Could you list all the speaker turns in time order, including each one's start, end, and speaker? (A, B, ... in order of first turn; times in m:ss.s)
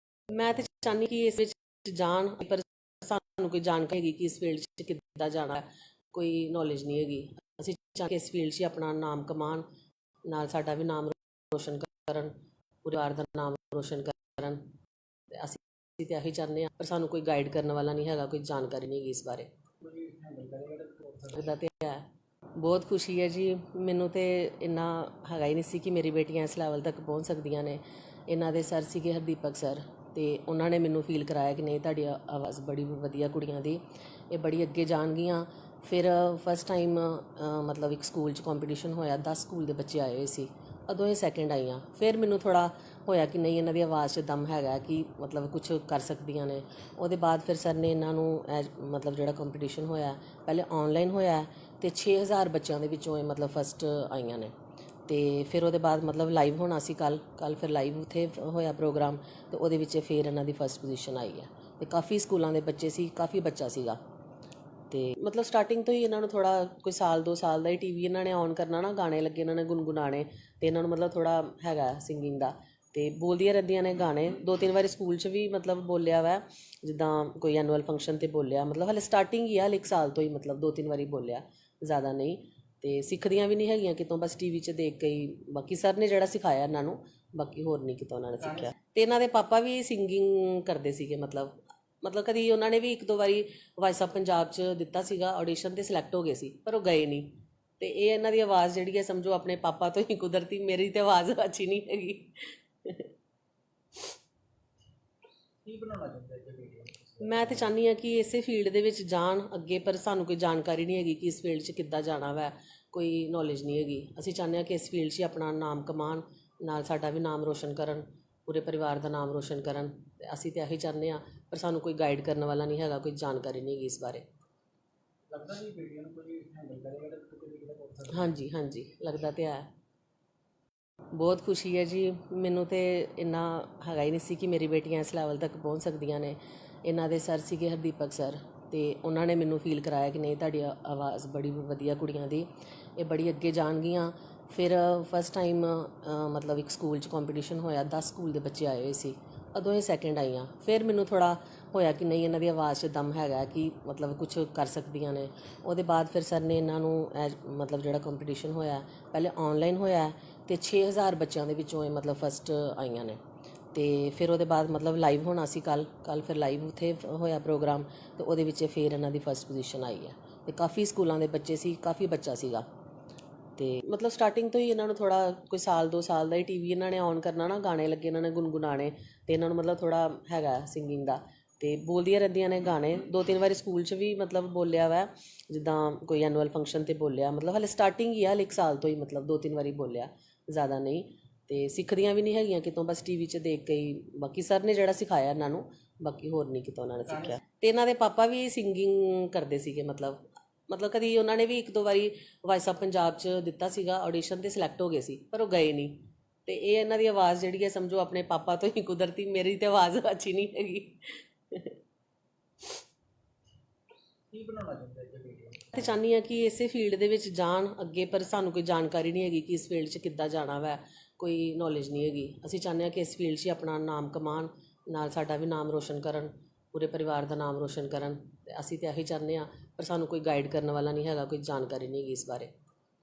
0:00.3-0:09.6 A
0:10.3-0:14.8 A
0:15.3-0:19.5 A
0:19.8-0:21.4 B
0:21.3-0:54.5 A
0:55.1-1:04.0 A
1:04.9-1:43.1 A
1:45.6-1:47.7 B
1:47.2-2:04.3 A
2:05.3-2:08.3 B
2:08.1-2:09.7 A
2:11.1-2:43.2 A
2:43.7-2:52.7 A
2:53.6-3:31.7 A
3:34.3-3:35.8 B
3:35.7-3:52.5 A